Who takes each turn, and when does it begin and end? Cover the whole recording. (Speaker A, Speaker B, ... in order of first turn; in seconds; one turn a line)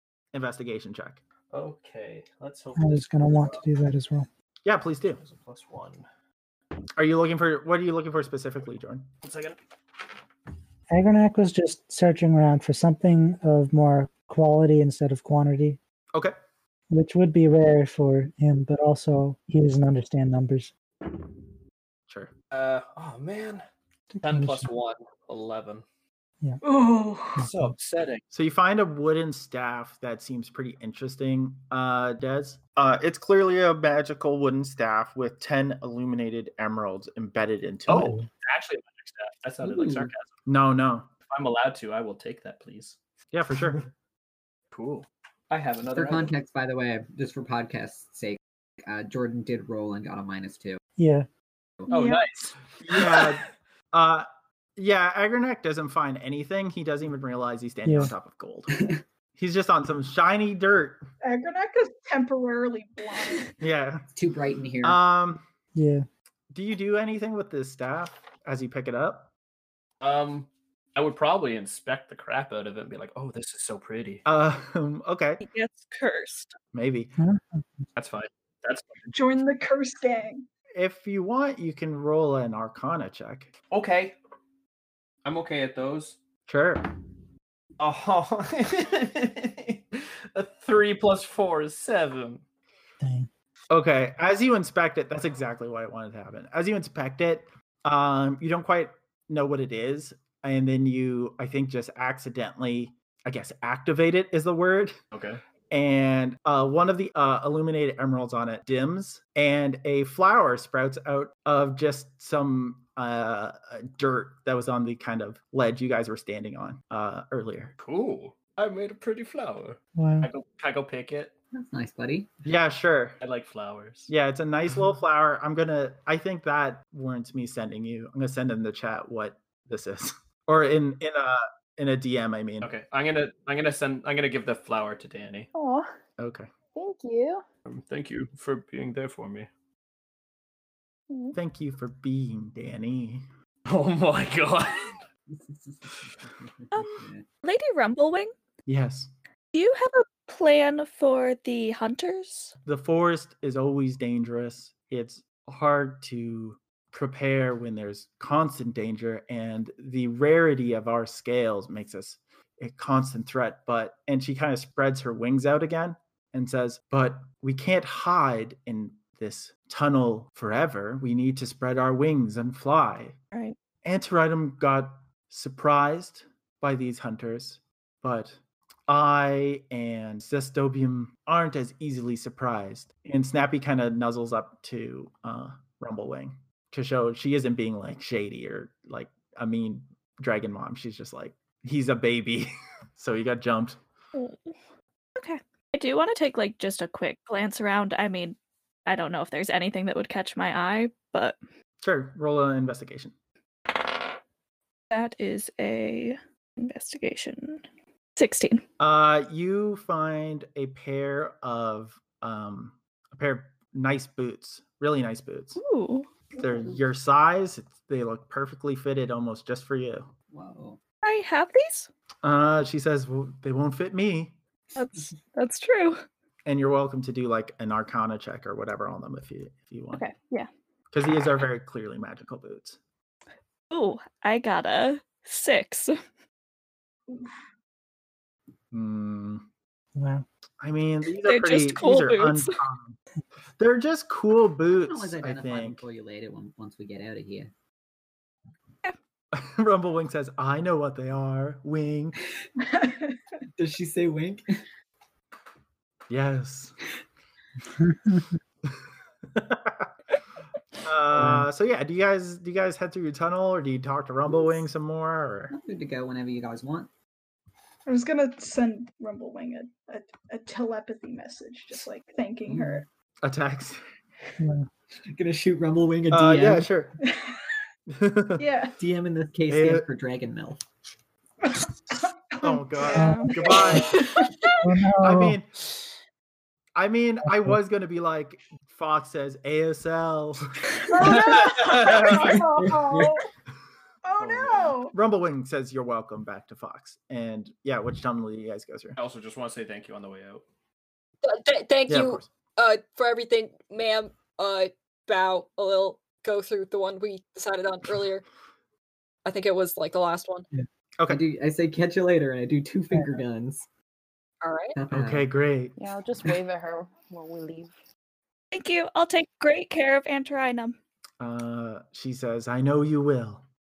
Speaker A: 0.3-1.2
Speaker B: 1.5-3.6
Speaker C: 2.8-4.3
Speaker A: 4.6-5.2
Speaker B: 5.2-6.0
Speaker A: 7.0-9.1
Speaker B: 9.2-9.6
Speaker C: 10.9-15.8
Speaker C: 16.9-20.7
Speaker B: 22.5-23.6
Speaker C: 24.1-24.7
Speaker B: 24.2-25.8
Speaker D: 26.6-27.4
Speaker C: 27.4-27.7
Speaker B: 27.4-28.2
Speaker A: 28.3-38.2
Speaker B: 37.9-40.3
Speaker E: 39.6-40.1
Speaker A: 40.5-41.1
Speaker B: 41.3-43.0
Speaker A: 43.3-43.8
Speaker B: 44.7-46.3
Speaker E: 45.9-50.8
Speaker C: 51.0-51.3
Speaker B: 51.9-53.3
Speaker A: 52.8-58.8
Speaker C: 57.8-58.1
Speaker E: 58.7-59.0
Speaker A: 59.4-61.0
Speaker D: 61.2-63.5
Speaker A: 63.6-64.1
Speaker E: 64.1-65.0
Speaker A: 64.8-65.4
Speaker C: 65.7-66.0
Speaker A: 66.5-69.3
Speaker B: 70.0-74.2
Speaker A: 74.2-75.4
Speaker F: 75.4-76.5
Speaker A: 76.7-77.1
Speaker C: 77.2-77.8
Speaker B: 77.9-79.1
Speaker D: 79.1-80.5
Speaker A: 80.7-83.5
Speaker B: 83.7-84.1
Speaker B: 85.2-86.2
Speaker A: 86.5-86.8
Speaker B: 87.8-92.4
Speaker C: 93.0-93.3
Speaker A: 93.7-105.0
Speaker B: 105.1-105.4
Speaker A: 105.7-117.7
Speaker B: 117.8-121.3
Speaker C: 120.0-120.3
Speaker E: 121.5-122.3
Speaker A: 122.4-123.2
Speaker B: 123.2-124.1
Speaker A: 124.1-132.7
Speaker B: 132.6-135.5
Speaker G: 135.5-135.9
Speaker A: 136.2-136.5
Speaker G: 136.8-137.4
Speaker B: 137.7-139.5
Speaker G: 141.1-141.3
Speaker A: 141.3-143.2
Speaker B: 143.7-145.0
Speaker E: 145.3-147.2
Speaker F: 146.7-148.3
Speaker A: 148.7-149.1
Speaker F: 149.5-152.5
Speaker A: 152.6-173.2
Speaker A: 173.8-178.3
Speaker A: 178.9-193.8
Speaker F: 194.1-194.5
Speaker F: 195.2-201.3
Speaker A: 201.8-203.1
Speaker F: 204.9-207.6
Speaker F: 208.2-208.6
Speaker A: 208.8-215.6
Speaker F: 215.6-216.1
Speaker A: 216.3-220.1
Speaker E: 220.3-220.8
Speaker F: 221.0-221.9
Speaker A: 222.2-224.3
Speaker F: 224.8-226.0
Speaker A: 226.4-230.0
Speaker G: 230.0-230.5
Speaker A: 230.9-232.8
Speaker F: 233.7-235.9
Speaker A: 238.7-239.4
Speaker C: 239.9-240.2
Speaker A: 240.6-243.0
Speaker F: 241.2-242.6
Speaker A: 243.6-245.8
Speaker E: 244.7-247.5
Speaker A: 249.3-252.2
Speaker D: 252.6-253.2
Speaker E: 253.6-254.4
Speaker A: 256.1-256.8
Speaker C: 257.8-258.2
Speaker A: 259.3-259.9
Speaker A: 260.8-265.5
Speaker C: 261.1-261.4
Speaker E: 265.5-266.9
Speaker D: 267.9-272.9
Speaker E: 272.5-272.8
Speaker A: 273.2-273.8
Speaker C: 274.4-274.7
Speaker E: 275.1-276.7
Speaker A: 276.1-276.9
Speaker D: 277.0-277.4
Speaker A: 277.9-278.4
Speaker D: 278.4-278.8
Speaker E: 278.8-280.6
Speaker A: 279.5-279.9
Speaker D: 281.5-284.7
Speaker A: 282.4-284.0
Speaker C: 282.9-283.3
Speaker F: 283.0-283.7
Speaker C: 284.6-285.4
Speaker A: 285.0-285.5
Speaker A: 286.7-290.5
Speaker D: 290.8-293.2
Speaker B: 291.1-292.3
Speaker E: 292.3-293.1
Speaker D: 294.0-294.9
Speaker B: 294.2-294.5
Speaker A: 294.9-299.0
Speaker B: 299.0-300.4
Speaker H: 301.2-308.2
Speaker A: 301.9-302.3
Speaker H: 309.2-310.5
Speaker E: 311.1-313.6
Speaker H: 314.4-314.8
Speaker E: 314.7-315.3
Speaker A: 314.9-315.8
Speaker G: 315.8-317.7
Speaker F: 318.5-320.8
Speaker A: 321.2-323.4